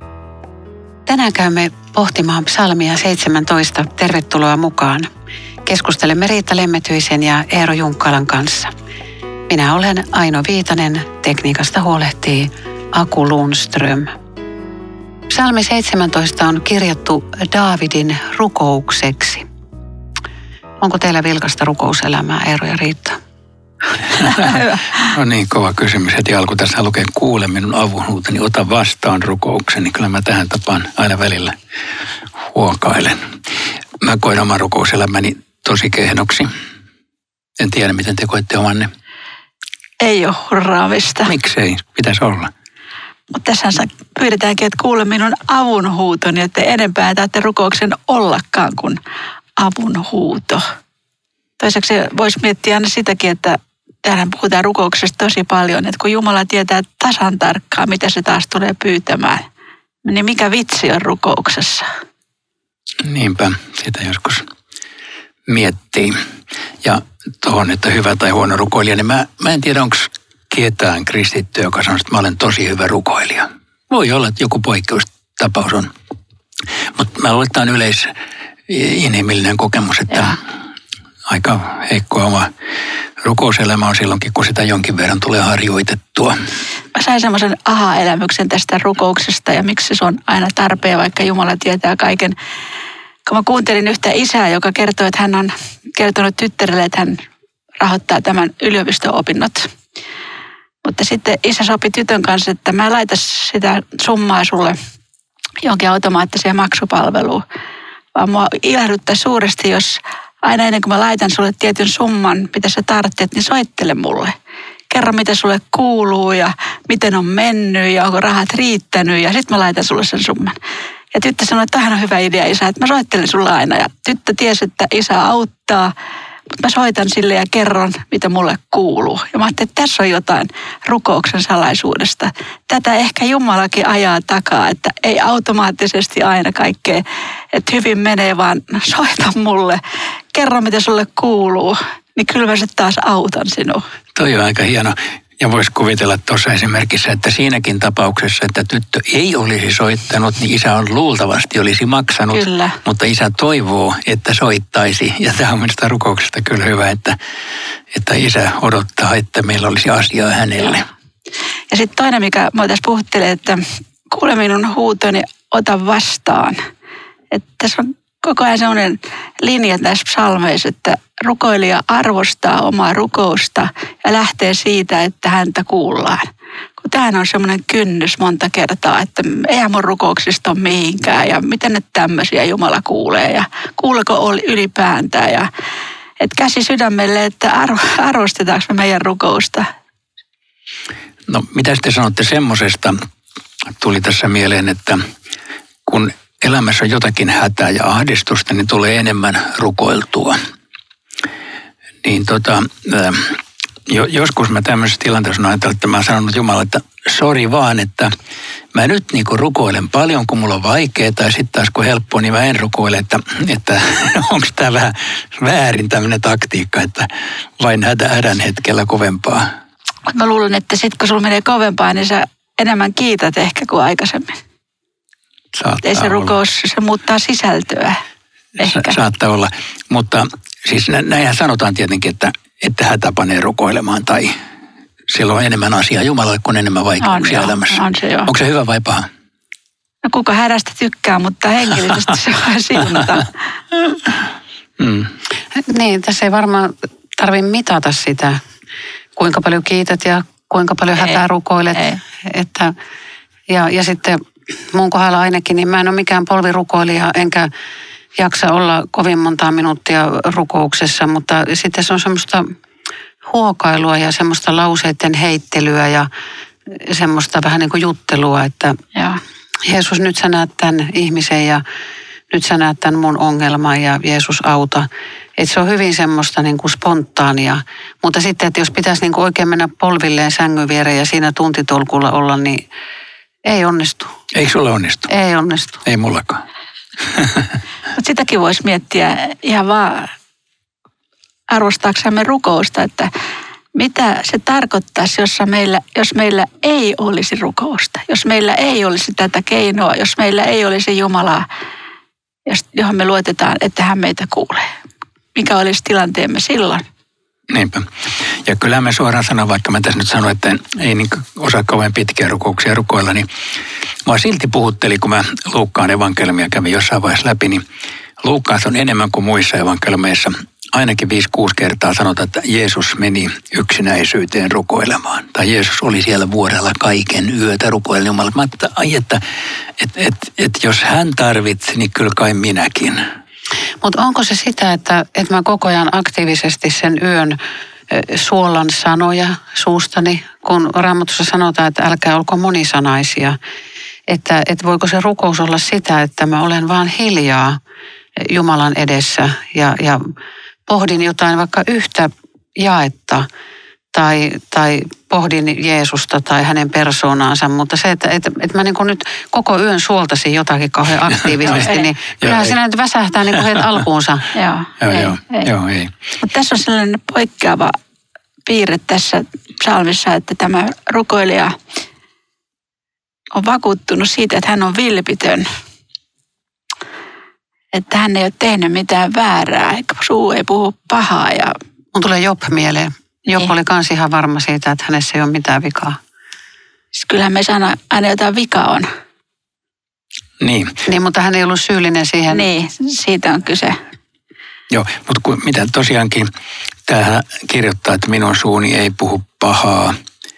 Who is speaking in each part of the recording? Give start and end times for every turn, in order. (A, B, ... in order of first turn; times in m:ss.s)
0:01.1-0:05.1 A
0:05.6-0:08.7 A
0:09.5-0:14.1 A
0:15.3-0:19.5 A
0:20.8-0:23.2 A
0:24.2-0:31.6 B
0:32.5-0:33.2 B
0:34.0-0:36.5 B
0:37.6-0:38.9 B
0:40.0-0:41.3 C
0:41.3-0:42.5 B
0:43.3-0:49.0 C
0:49.6-0:50.6 C
0:51.6-0:59.4 C
1:00.0-1:01.9 C
1:03.0-1:04.4 B
1:05.5-1:06.2 B
1:06.8-1:15.9 B
1:16.9-1:18.1 B
1:18.7-1:20.4 B
1:21.3-1:22.5 B
1:23.2-1:26.4 B
1:27.0-1:32.4 C
1:33.3-1:37.2 C
1:37.8-1:39.7 C
1:40.8-1:44.8 C
1:45.6-1:47.4 C
1:48.2-1:54.3 C
1:54.9-2:00.6 C
2:01.1-2:05.9 C
2:06.5-2:19.8 C
2:20.3-2:23.8 C
2:24.2-2:37.2 B
2:32.3-2:32.8 C
2:37.9-2:40.8 B
2:41.7-2:46.6 C
2:47.3-2:56.3 C
2:56.8-3:05.5 C
3:06.2-3:09.7 C
3:11.3-3:13.0 B
3:13.8-3:15.0 B
3:15.9-3:20.4 B
3:22.0-3:28.1 B
3:28.7-3:39.5 B
3:40.1-3:44.4 C
3:45.5-3:46.4 B
3:45.8-3:48.0 C
3:48.6-3:48.9 C
3:48.6-3:54.3 B
3:55.1-3:59.1 B
3:57.0-3:58.3 C
4:00.0-4:03.3 C
4:04.8-4:05.1 B
4:05.6-4:08.4 A
4:09.2-4:12.7 A
4:13.5-4:14.2 A
4:14.7-4:17.5 A
4:18.2-4:22.5 A
4:23.3-4:26.1 A
4:26.7-4:28.8 A
4:29.0-4:29.2 C
4:29.7-4:31.6 A
4:32.3-4:42.7 A
4:43.4-4:44.1 A
4:44.3-4:45.1 B
4:45.1-4:45.8 A
4:45.9-4:46.4 B
4:47.1-4:47.4 B
4:48.0-4:50.1 C
4:51.5-4:53.1 C
4:53.8-5:01.4 C
5:02.5-5:04.7 C
5:05.4-5:06.8 C
5:07.5-5:07.9 B
5:08.4-5:13.3 B
5:14.1-5:17.6 B
5:18.2-5:29.2 B
5:29.8-5:33.0 B
5:33.8-5:37.4 A
5:37.9-5:43.4 A
5:44.1-5:47.6 A
5:48.2-5:50.1 A
5:50.7-5:53.3 A
5:53.9-6:04.3 A
6:01.4-6:01.9 C
6:02.2-6:02.5 B
6:04.3-6:05.5 C
6:04.8-6:05.9 B
6:06.2-6:07.8 C
6:08.5-6:11.6 C
6:13.3-6:15.5 C
6:17.7-6:21.6 C
6:21.9-6:26.0 A
6:26.9-6:28.9 C
6:30.4-6:30.7 B
6:30.9-6:32.5 A
6:32.3-6:33.8 C
6:34.7-6:36.3 B
6:36.9-6:40.0 B